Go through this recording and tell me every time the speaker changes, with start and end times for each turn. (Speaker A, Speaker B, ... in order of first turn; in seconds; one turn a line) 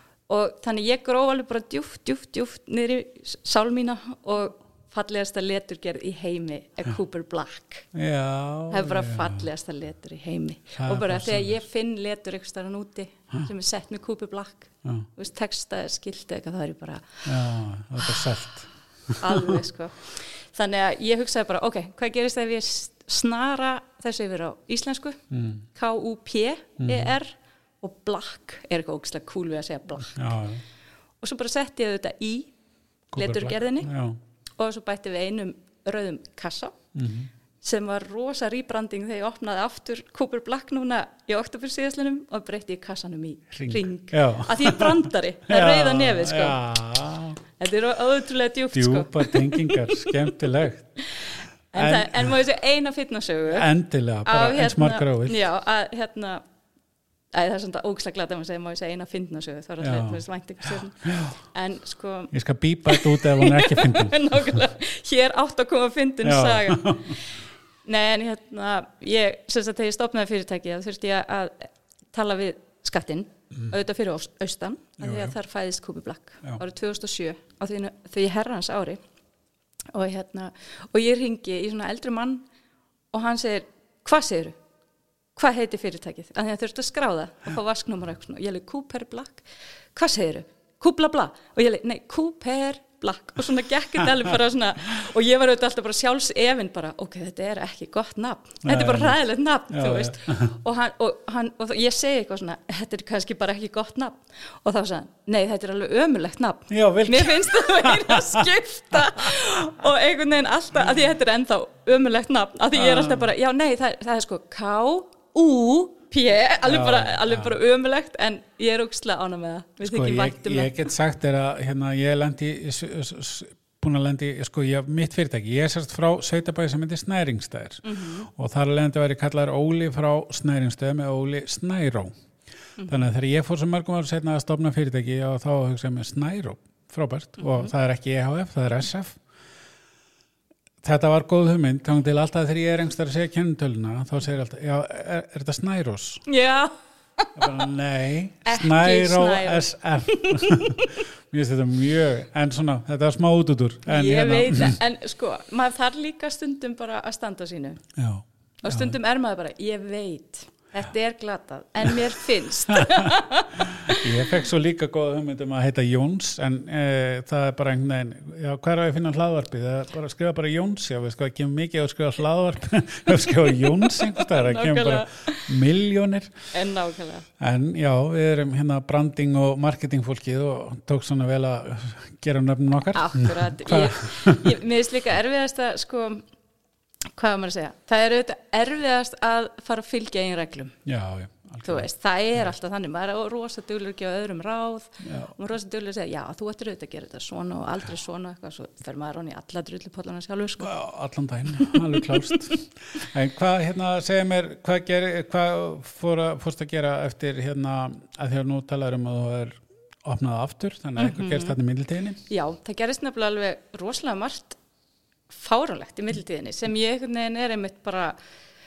Speaker A: 0.3-7.9
Speaker B: 7.9-9.5
Speaker A: 8.7-17.3
Speaker B: 10.8-11.6
Speaker B: 17.2-19.5
Speaker A: 19.2-25.2
Speaker B: 25.3-25.6
Speaker A: 25.7-30.2
Speaker B: 26.8-27.1
Speaker B: 30.0-30.6
Speaker A: 31.2-32.5
Speaker B: 33.1-34.2
Speaker A: 33.1-33.9
Speaker A: 34.6-36.8
Speaker B: 36.9-37.3
Speaker A: 37.6-46.6
Speaker B: 43.5-47.4
Speaker A: 47.6-50.3
Speaker B: 48.7-50.9
Speaker A: 51.0-53.7
Speaker B: 51.7-52.4
Speaker B: 53.5-55.4
Speaker A: 54.2-56.4
Speaker A: 57.3-62.3
Speaker B: 59.8-61.3
Speaker B: 62.3-64.7
Speaker A: 62.9-79.0
Speaker B: 66.2-67.2
Speaker B: 75.0-75.3
Speaker A: 79.9-82.4
Speaker A: 83.1-84.5
Speaker A: 85.3-120.9
Speaker B: 98.6-99.2
Speaker B: 99.7-100.5
Speaker B: 106.7-108.5
Speaker B: 112.7-113.3
Speaker B: 116.6-117.5
Speaker B: 119.8-132.1
Speaker A: 127.8-128.3
Speaker B: 132.9-139.2
Speaker A: 137.4-137.7
Speaker B: 140.8-146.2
Speaker A: 146.2-147.6
Speaker B: 147.3-154.8
Speaker A: 148.4-151.0
Speaker A: 153.9-157.8
Speaker B: 157.9-159.0
Speaker A: 158.6-164.4
Speaker B: 162.7-176.3
Speaker A: 173.4-175.6
Speaker A: 176.5-177.3
Speaker B: 177.4-184.6
Speaker A: 182.9-186.2
Speaker A: 187.2-190.8
Speaker B: 190.8-191.9
Speaker A: 191.6-200.7
Speaker B: 195.0-195.3
Speaker B: 200.6-212.2
Speaker A: 201.6-202.5
Speaker A: 211.0-211.5
Speaker A: 212.3-214.6
Speaker A: 215.3-218.2